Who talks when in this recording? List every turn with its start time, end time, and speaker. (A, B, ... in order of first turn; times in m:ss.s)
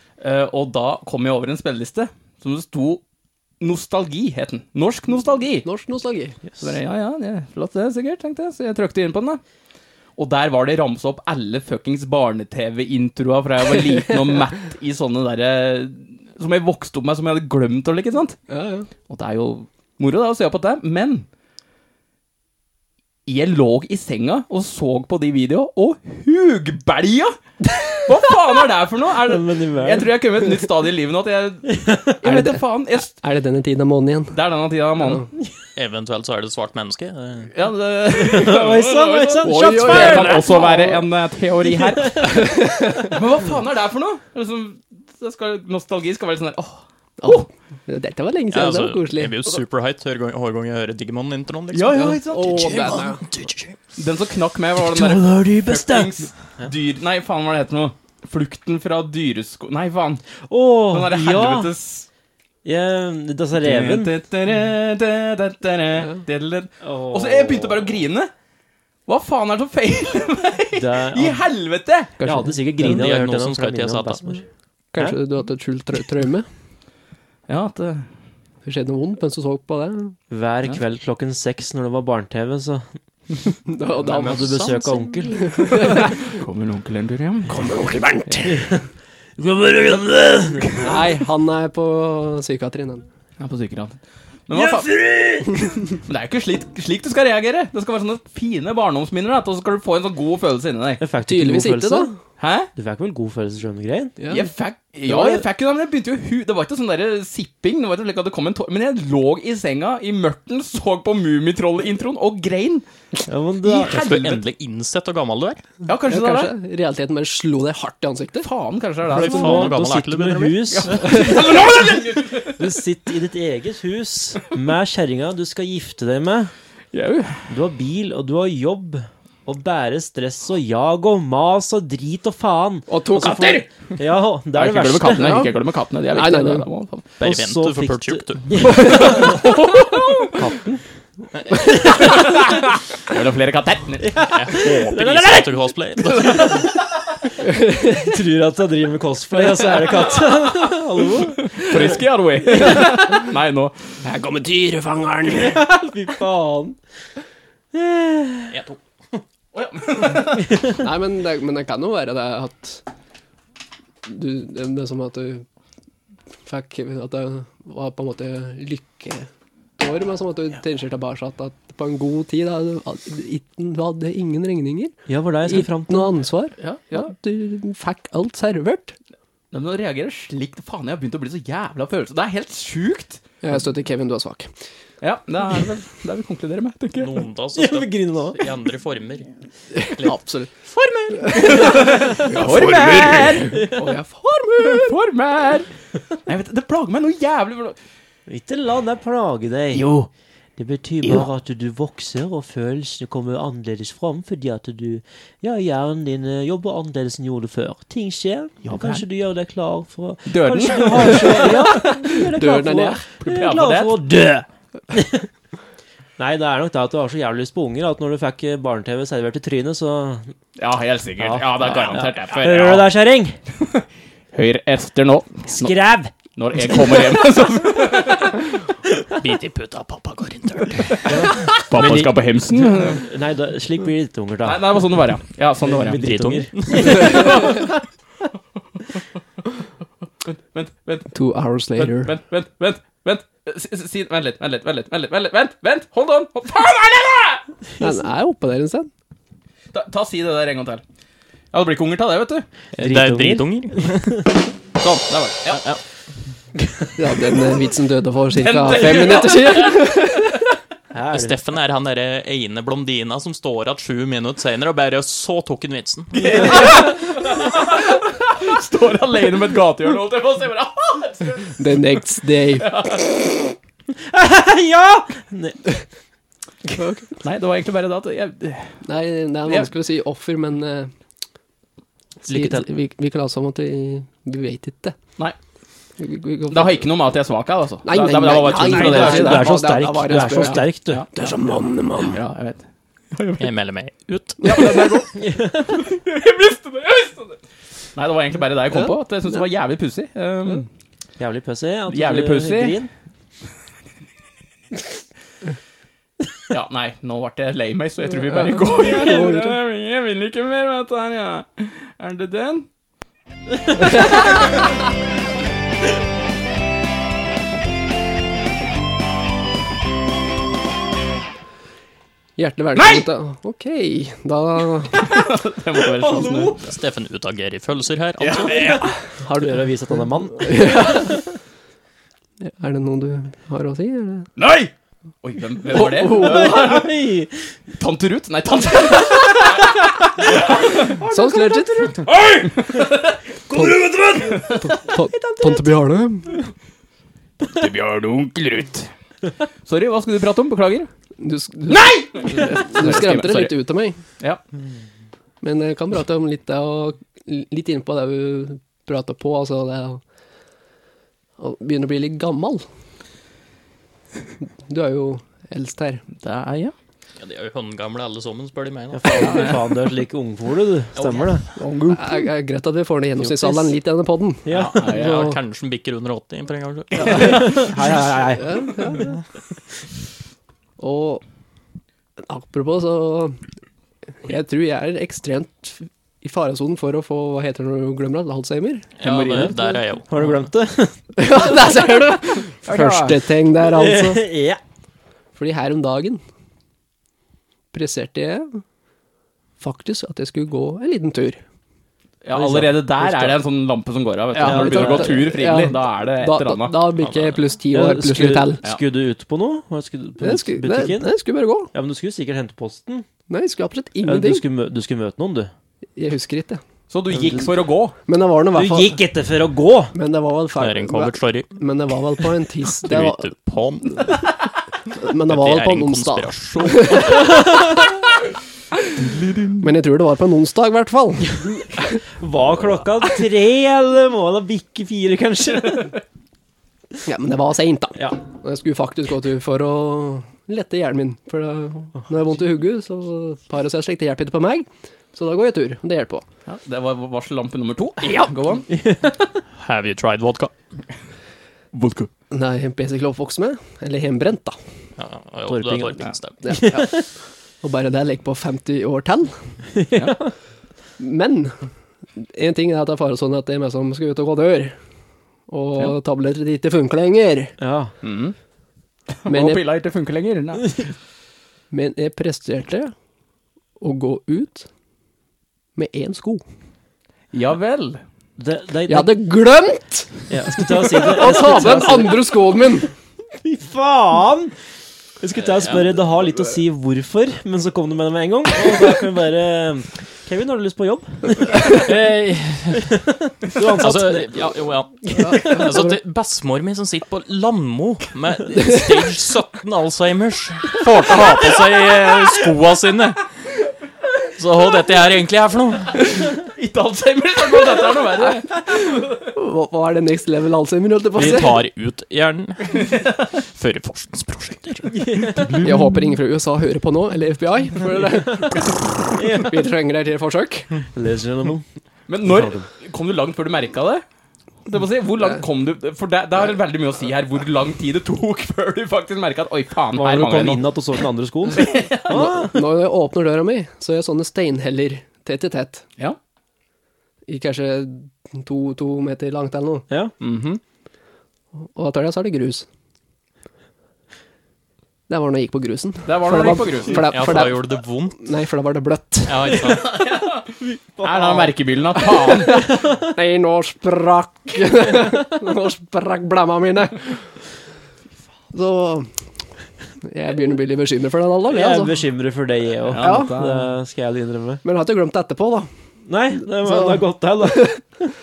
0:00.2-0:03.0 A
0:03.6-0:05.7 A
0:05.6-0:06.4 B
0:06.6-0:09.4 A
0:10.2-0:18.4 A
0:18.5-0:18.9 B
0:19.1-0:21.2 A
0:23.2-0:27.4 A
0:28.0-0:33.1 A
0:29.2-0:30.2 C
0:31.7-0:32.1 C
0:32.2-0:34.4 B
0:34.3-0:35.3 A
0:35.0-0:35.3 B
0:35.8-0:37.5 D
0:37.5-0:47.3 A
0:38.1-0:40.7 C
0:39.4-0:41.0 B
0:41.7-0:42.1 C
0:42.2-0:43.1 B
0:47.2-0:49.4 B
0:48.5-0:53.8 D
0:51.7-0:53.0 A
0:51.9-0:53.2 B
0:54.0-1:00.2 A
0:54.8-0:56.7 C
1:00.5-1:01.7 C
1:00.9-1:02.0 A
1:02.6-1:04.1 C
1:03.6-1:08.3 A
1:06.8-1:07.9 C
1:09.0-1:12.2 A
1:10.7-1:11.4 C
1:12.2-1:12.5 B
1:12.2-1:14.4 C
1:12.8-1:14.2 D
1:14.9-1:16.5 B
1:17.5-1:18.1 A
1:18.6-1:20.2 B
1:20.3-1:22.9 C
1:23.7-1:24.8 B
1:24.0-1:26.1 C
1:25.4-1:26.2 B
1:26.0-1:27.6 A
1:27.5-1:28.7 B
1:28.4-1:28.8 C
1:29.4-1:30.9 C
1:30.8-1:33.0 B
1:33.4-1:35.0 A
1:34.5-1:35.5 C
1:35.9-1:41.0 A
1:41.0-1:42.1 C
1:41.3-1:42.1 B
1:42.4-1:42.7 A
1:42.7-1:44.2 C
1:44.2-1:44.5 B
1:44.3-1:52.8 A
1:45.0-1:45.4 C
1:53.3-1:54.0 C
1:53.6-1:54.4 A
1:53.8-1:55.6 D
1:55.8-1:56.5 A
1:56.0-1:58.5 B
1:58.4-1:59.8 A
1:59.1-2:01.4 C
1:59.1-2:01.0 D
2:00.7-2:02.7 A
2:02.6-2:06.5 C
2:06.9-2:07.5 A
2:07.5-2:15.5 C
2:12.9-2:13.6 B
2:14.5-2:17.2 A
2:15.1-2:15.6 B
2:16.1-2:16.7 B
2:17.2-2:19.2 D
2:17.2-2:19.6 C
2:18.7-2:20.0 B
2:18.9-2:20.2 A
2:20.2-2:20.8 C
2:21.5-2:22.4 C
2:21.9-2:24.2 A
2:24.0-2:25.5 C
2:24.3-2:26.7 D
2:26.1-2:26.6 C
2:27.4-2:28.1 B
2:27.8-2:32.0 C
2:31.4-2:34.0 A
2:32.5-2:33.2 B
2:34.0-2:35.6 B
2:35.3-2:36.8 C
2:37.7-2:38.6 C
2:38.5-2:38.8 D
2:39.5-2:40.7 A
2:40.7-2:42.8 B
2:44.0-2:45.4 B
2:46.4-2:59.0 B
2:55.1-2:56.1 C
2:56.6-2:57.1 A
2:59.5-3:03.2 A
3:03.4-3:04.5 B
3:05.0-3:07.2 A
3:07.0-3:11.9 D
3:07.5-3:08.4 C
3:09.7-3:10.5 B
3:11.1-3:14.9 B
3:11.3-3:13.8 A
3:12.4-3:13.8 C
3:14.6-3:15.7 A
3:16.2-3:17.8 A
3:18.3-3:19.9 C
3:19.7-3:20.1 A
3:20.6-3:35.3 C
3:28.6-3:29.0 A
3:30.3-3:31.8 A
3:31.0-3:33.0 B
3:33.2-3:33.9 A
3:36.2-3:40.3 C
3:40.6-3:42.9 A
3:41.2-3:43.4 C
3:43.6-3:45.7 A
3:45.5-3:46.1 C
3:46.3-3:48.4 A
3:49.2-3:51.4 D
3:51.0-3:54.8 C
3:51.2-3:53.0 A
3:54.4-3:56.0 A
3:55.6-3:57.6 C
3:55.9-3:57.4 D
3:56.7-3:57.6 A
4:00.2-4:01.1 A
4:01.1-4:02.1 B
4:01.8-4:07.4 A
4:07.8-4:08.9 B
4:09.7-4:10.8 A
4:11.5-4:12.4 A
4:12.8-4:14.2 D
4:12.8-4:14.2 C
4:14.8-4:15.7 A
4:17.0-4:20.4 B
4:18.3-4:19.9 A
4:20.9-4:21.4 C
4:21.1-4:26.8 D
4:26.1-4:31.8 A
4:26.4-4:26.8 C
4:31.6-4:32.7 B
4:32.6-4:33.5 A
4:33.9-4:35.6 C
4:36.8-4:37.0 B
4:37.2-4:38.8 A
4:38.8-4:40.9 B
4:42.2-4:45.0 B
4:42.3-4:42.6 C
4:46.0-4:46.8 B
4:46.5-4:51.1 A
4:47.8-4:52.2 B
4:48.5-4:51.0 C
4:52.1-4:53.5 A
4:53.4-4:54.9 D
4:54.4-4:57.4 A
4:55.1-4:55.8 C
4:57.9-5:00.7 A
5:01.2-5:02.9 C
5:01.9-5:02.8 A
5:06.5-5:12.7 A
5:08.3-5:09.6 B
5:14.0-5:14.4 A
5:22.4-5:25.3 B
5:22.8-5:23.0 A
5:24.9-5:26.6 A
5:26.6-5:28.7 D
5:28.2-5:28.9 A
5:28.5-5:31.2 C
5:29.2-5:29.6 B
5:30.4-5:31.2 B
5:32.4-5:34.3 B
5:34.4-5:36.9 A
5:35.7-5:36.8 B
5:36.0-5:37.5 C
5:37.8-5:41.0 A
5:40.2-5:42.2 C
5:41.1-5:42.0 B
5:42.2-5:43.1 A
5:43.5-5:44.8 C
5:44.2-5:44.7 A
5:44.6-5:46.4 B
5:47.4-5:48.9 A
5:49.6-5:50.9 A
5:51.2-5:54.0 B
5:51.7-5:53.6 A
5:55.4-6:00.0 B
6:01.4-6:02.6 B
6:04.7-6:06.0 B
6:06.1-6:06.7 A
6:07.2-6:09.6 D
6:08.9-6:11.4 C
6:09.2-6:09.6 A
6:10.9-6:11.4 D
6:11.5-6:14.5 B
6:14.4-6:15.3 C
6:14.5-6:15.3 A
6:14.5-6:17.6 D
6:17.0-6:18.0 A
6:17.0-6:17.6 B
6:17.1-6:18.8 C
6:18.3-6:19.2 B
6:20.8-6:21.2 B
6:22.2-6:23.4 B
6:24.2-6:28.8 B
6:29.0-6:30.3 D
6:29.0-6:29.8 A
6:30.1-6:31.4 C
6:31.2-6:34.3 B
6:32.6-6:33.2 A
6:33.6-6:34.6 C
6:35.4-6:36.2 B
6:37.7-6:38.6 B
6:39.6-6:41.4 B
6:42.2-6:46.8 A
6:42.3-6:43.4 C
6:44.3-6:48.6 B
6:44.4-6:45.2 C
6:47.0-6:47.4 D
6:47.7-6:51.2 C
6:50.2-6:51.7 B
6:51.7-6:53.1 C
6:53.3-6:54.4 B
6:54.0-6:55.5 C
6:56.0-6:56.6 B
6:56.9-6:57.9 A
6:57.1-6:57.5 C
6:58.0-6:59.0 B
6:58.5-6:59.9 C
6:59.9-7:03.3 B
7:00.6-7:01.6 D
7:02.8-7:04.3 D
7:04.9-7:07.2 B
7:05.2-7:07.5 D
7:09.0-7:09.6 A
7:09.6-7:12.0 B
7:12.2-7:15.9 C
7:17.0-7:26.2 B
7:26.5-7:28.7 A
7:28.7-7:29.2 C
7:29.6-7:30.5 D
7:31.7-7:32.1 A
7:32.3-7:34.6 B
7:35.0-7:36.4 D
7:35.5-7:36.1 C
7:36.4-7:37.0 B
7:37.6-7:39.5 B
7:39.7-7:40.3 C
7:41.0-7:41.6 B
7:42.2-7:44.8 B
7:45.5-7:47.5 B
7:47.6-7:47.9 C
7:48.0-7:48.3 A
7:49.2-7:50.9 A
7:49.2-7:49.6 B
7:51.7-7:52.9 B
7:53.8-7:54.7 B
7:55.8-7:56.4 B
7:57.3-7:58.0 A
7:58.4-7:59.1 C
7:58.9-8:02.9 B
8:00.3-8:02.3 C
8:03.4-8:04.5 C
8:05.2-8:11.8 C
8:11.6-8:13.0 D
8:13.0-8:14.5 C
8:13.6-8:23.2 D
8:15.1-8:16.0 B
8:24.3-8:26.2 D
8:26.4-8:28.6 A
8:28.7-8:31.6 B
8:31.2-8:35.1 D
8:34.9-8:35.6 C
8:35.5-8:40.7 B
8:39.1-8:39.6 C
8:40.9-8:41.6 C
8:42.1-8:44.0 A
8:42.2-8:42.6 C
8:44.6-8:50.6 A
8:49.9-8:52.6 C
8:51.5-8:52.3 A
8:52.1-8:55.8 B
8:57.3-8:59.9 B
9:00.2-9:00.6 A
9:01.6-9:02.6 B
9:05.1-9:09.6 B
9:06.0-9:07.3 A
9:06.9-9:08.2 D
9:09.3-9:10.1 D
9:09.8-9:10.5 A
9:10.5-9:11.6 C
9:11.0-9:12.7 A
9:12.0-9:17.4 B
9:18.5-9:19.1 B
9:20.0-9:22.0 B
9:21.5-9:24.6 C
9:22.9-9:23.7 A
9:23.0-9:23.4 B
9:24.6-9:25.7 B
9:26.0-9:27.8 C
9:26.4-9:27.8 B